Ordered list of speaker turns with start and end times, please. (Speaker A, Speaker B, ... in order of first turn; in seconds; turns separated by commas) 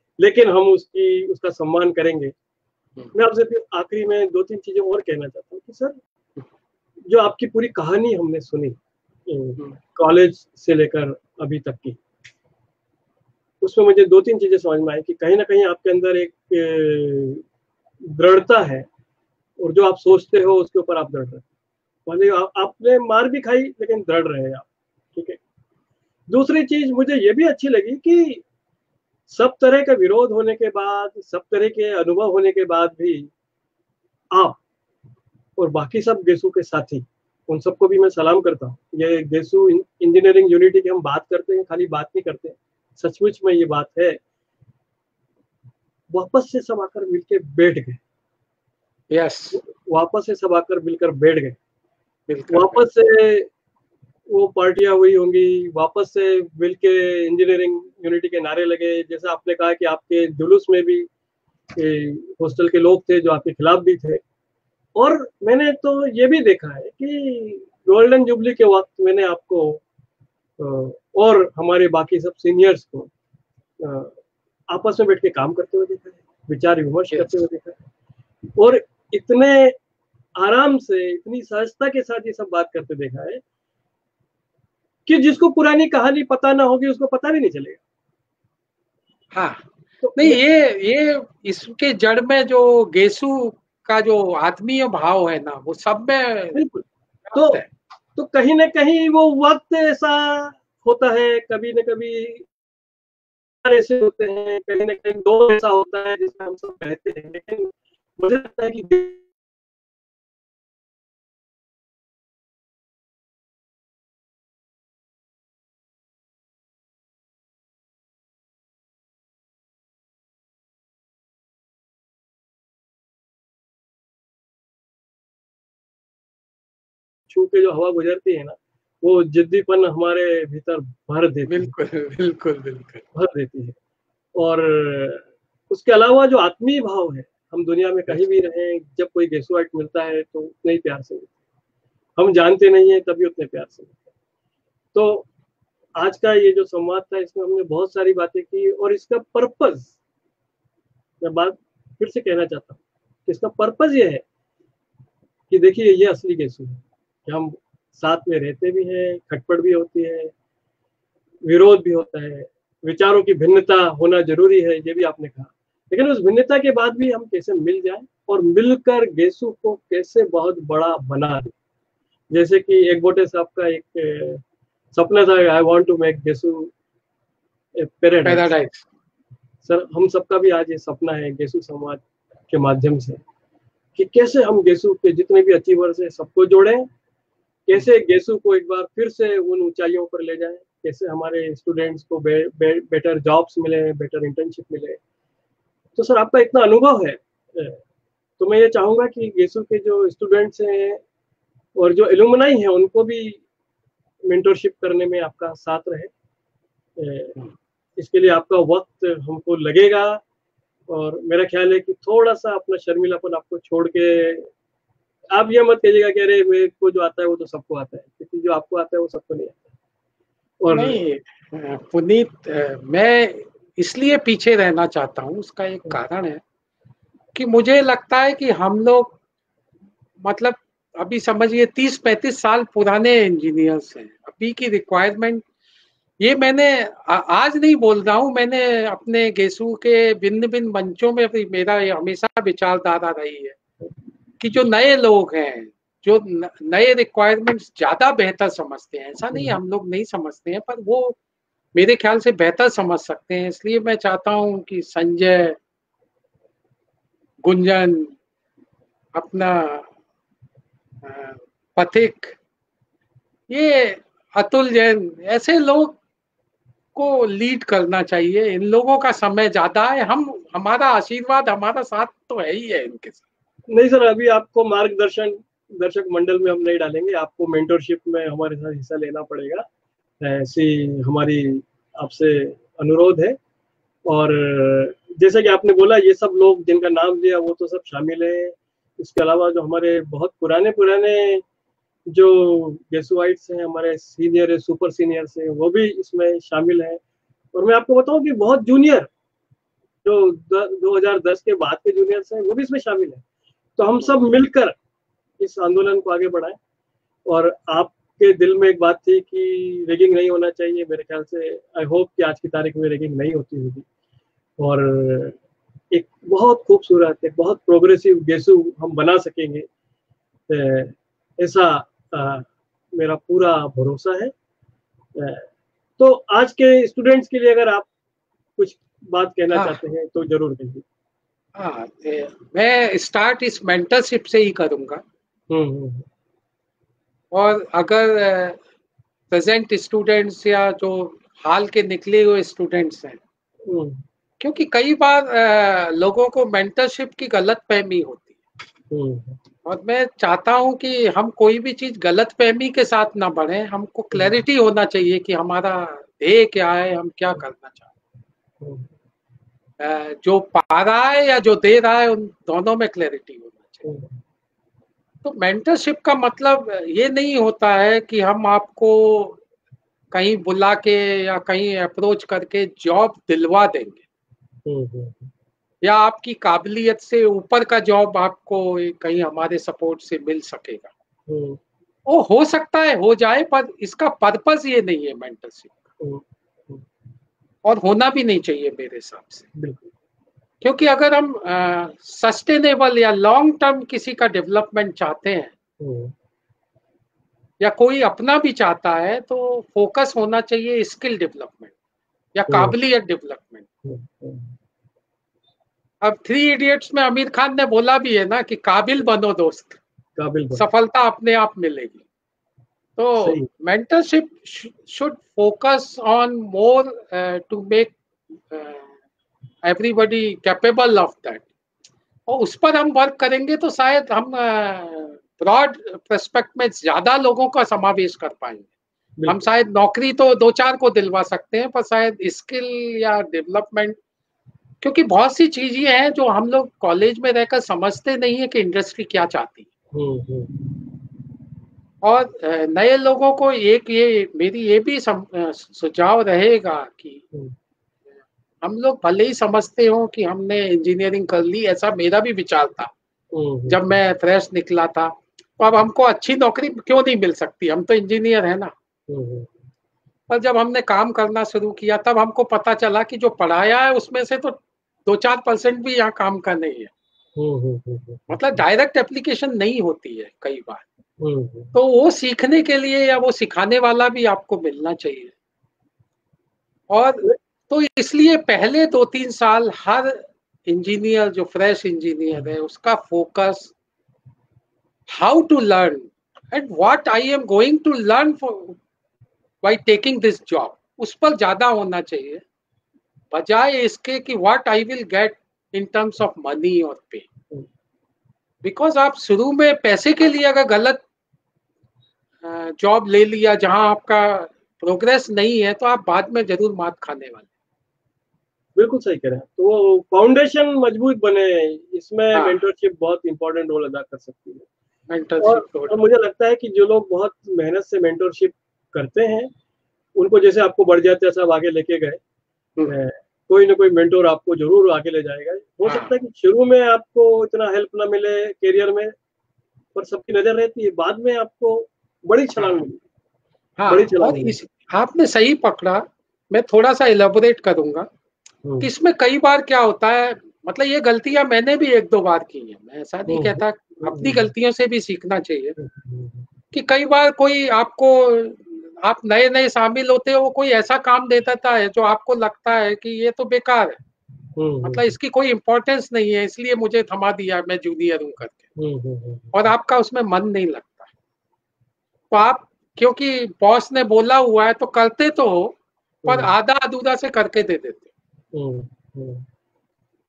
Speaker A: 0.2-2.3, Speaker A: 3.1-6.0, Speaker A: 7.1-12.0, Speaker A: 13.6-17.4, Speaker A: 18.1-18.9, Speaker A: 19.6-21.4, Speaker A: 22.1-25.4, Speaker A: 26.3-28.4, Speaker A: 29.3-33.3, Speaker A: 34.3-34.6, Speaker A: 35.6-44.2, Speaker A: 46.1-48.0, Speaker B: 49.1-49.6, Speaker A: 49.5-51.6, Speaker B: 52.3-52.8, Speaker A: 52.5-53.5, Speaker A: 54.3-61.1, Speaker A: 61.7-64.2, Speaker A: 65.0-69.8, Speaker A: 70.6-73.1, Speaker A: 73.8-74.2, Speaker A: 74.7-77.8, Speaker B: 77.1-77.4, Speaker A: 78.6-79.8, Speaker A: 80.3-83.4, Speaker A: 85.1-87.8, Speaker B: 89.3-96.6, Speaker A: 90.0-90.4, Speaker A: 96.5-97.6, Speaker B: 97.2-97.7, Speaker A: 98.2-102.5, Speaker A: 103.6-109.2, Speaker A: 127.3-131.7, Speaker B: 131.5-133.0, Speaker A: 133.1-133.8, Speaker A: 134.3-141.3, Speaker A: 142.2-144.0, Speaker A: 144.9-145.3, Speaker A: 146.0-149.9, Speaker A: 151.2-154.2, Speaker A: 155.5-160.3, Speaker A: 161.4-171.5, Speaker A: 172.3-174.4, Speaker A: 174.9-176.7, Speaker A: 177.8-178.5, Speaker B: 178.2-178.8, Speaker A: 179.6-183.2, Speaker A: 183.9-186.9, Speaker A: 187.7-195.0, Speaker A: 195.9-197.8, Speaker A: 198.4-201.0, Speaker A: 201.8-203.4, Speaker A: 204.3-206.1, Speaker A: 207.0-207.4, Speaker A: 208.0-210.2, Speaker A: 210.9-214.5, Speaker A: 215.3-219.6, Speaker A: 220.6-221.0, Speaker B: 220.7-226.4, Speaker B: 227.3-229.2, Speaker B: 230.2-235.4, Speaker B: 236.2-243.6, Speaker B: 244.4-251.2, Speaker B: 251.7-255.6, Speaker B: 257.4-258.1, Speaker B: 259.1-259.9, Speaker B: 261.0-262.4, Speaker B: 263.5-266.0, Speaker B: 266.9-273.2, Speaker A: 273.7-279.6, Speaker A: 280.2-283.4, Speaker A: 284.1-291.4, Speaker A: 292.1-297.0, Speaker A: 297.5-299.1, Speaker A: 300.0-303.2, Speaker A: 303.8-304.8, Speaker A: 305.4-306.6, Speaker A: 307.3-313.9, Speaker A: 314.6-315.4, Speaker A: 315.9-319.6, Speaker A: 320.5-324.3, Speaker A: 325.1-327.9, Speaker A: 328.6-330.8, Speaker B: 329.5-329.8, Speaker B: 331.5-335.0, Speaker A: 335.5-336.1, Speaker B: 337.3-338.6, Speaker B: 339.3-343.2, Speaker A: 343.6-344.0, Speaker B: 344.4-348.4, Speaker A: 348.9-349.4, Speaker B: 349.6-357.9, Speaker A: 354.1-354.4, Speaker A: 358.6-358.9, Speaker B: 359.8-363.8, Speaker A: 363.8-364.2, Speaker B: 365.2-369.4, Speaker B: 370.1-374.0, Speaker A: 374.6-375.3, Speaker B: 375.8-380.9, Speaker A: 381.3-381.6, Speaker B: 382.1-385.8, Speaker A: 386.0-386.8, Speaker B: 387.6-389.4, Speaker A: 389.5-389.9, Speaker B: 390.6-395.5, Speaker A: 395.8-396.1, Speaker B: 397.6-401.7, Speaker B: 402.3-403.6, Speaker A: 402.5-402.8, Speaker A: 403.8-404.6, Speaker B: 406.0-409.8, Speaker A: 410.2-410.6, Speaker B: 410.5-412.0, Speaker B: 413.0-418.9, Speaker A: 413.2-413.5, Speaker B: 419.6-421.5, Speaker B: 422.3-428.7, Speaker B: 429.3-434.0, Speaker B: 434.8-439.7, Speaker A: 439.9-440.6, Speaker B: 442.0-447.2, Speaker B: 448.6-452.9, Speaker A: 453.3-454.0, Speaker B: 453.7-458.7, Speaker A: 459.1-459.5, Speaker B: 460.3-466.9, Speaker A: 467.4-468.4, Speaker B: 468.3-470.8, Speaker A: 471.2-471.7, Speaker B: 471.7-475.3, Speaker B: 476.9-483.7, Speaker B: 485.1-488.8, Speaker B: 489.6-492.4, Speaker B: 493.3-497.3, Speaker B: 498.6-501.0, Speaker B: 502.4-507.5, Speaker A: 508.8-514.7, Speaker B: 512.3-512.6, Speaker B: 515.1-516.0, Speaker A: 515.4-519.5, Speaker A: 520.1-522.2, Speaker A: 522.8-529.1, Speaker B: 525.8-526.1, Speaker A: 529.9-533.0, Speaker B: 532.6-532.8, Speaker B: 533.8-538.1, Speaker A: 533.9-534.6, Speaker B: 538.8-545.7, Speaker A: 543.3-544.5, Speaker A: 545.8-546.5, Speaker B: 546.7-554.0, Speaker A: 554.6-555.1, Speaker B: 554.8-558.7, Speaker A: 558.8-559.7, Speaker B: 559.5-561.1, Speaker B: 562.3-568.1, Speaker A: 566.2-566.5, Speaker A: 568.5-569.4